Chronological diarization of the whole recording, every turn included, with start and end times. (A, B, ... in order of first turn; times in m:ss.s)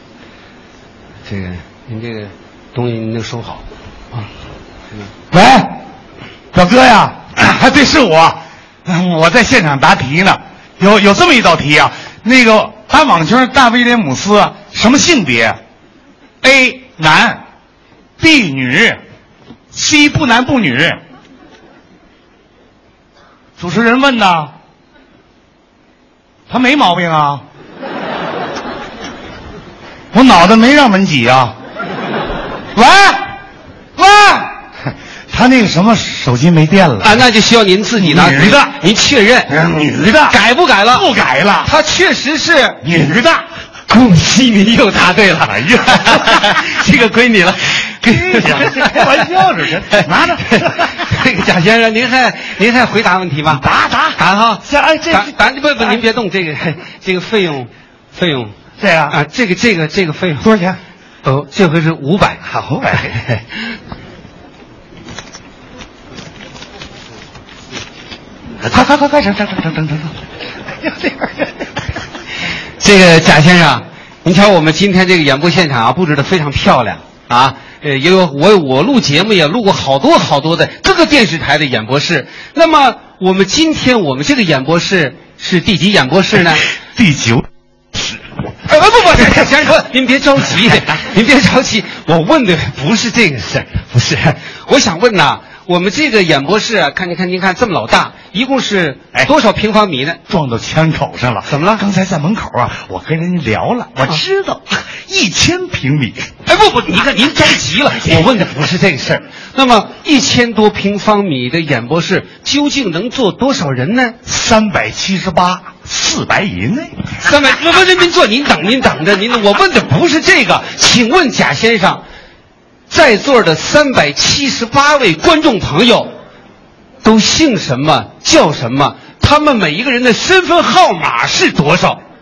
0:01.3-0:04.3 A
0:05.3-0:05.8 B
0:06.5-0:15.6 B
0:16.4-0:17.4 B
0:18.2-0:19.0 B
0:19.7-0:21.0 B
0:23.6-0:24.5 B
0:26.5-0:27.4 B
0:30.1-0:31.6 B
0:32.8-0:33.3 B
0:34.0-0:34.5 B
0:35.3-0:37.2 B
0:37.0-0:39.6 A
0:38.0-0:38.8 B
0:39.5-0:40.4 B
0:40.3-0:41.1 A
0:40.9-0:41.7 B
0:41.6-0:42.8 A
0:42.8-0:43.5 B
0:43.9-0:49.2 A
0:45.4-0:46.3 B
0:48.0-0:51.0 B
0:49.9-0:53.6 A
0:53.5-0:56.0 B
0:54.2-0:58.6 A
0:58.8-0:59.2 B
0:59.1-1:00.5 A
1:00.4-1:00.8 B
1:01.2-1:03.7 A
1:02.6-1:03.1 B
1:08.6-1:10.2 B
1:12.8-1:26.7 A
1:27.0-1:27.5 B
1:28.6-1:40.2 A
1:40.3-1:46.2 B
1:41.5-1:41.8 A
1:46.5-1:54.2 A
1:54.3-1:57.2 B
1:57.2-2:02.0 A
2:02.9-2:06.1 A
2:07.0-2:12.0 A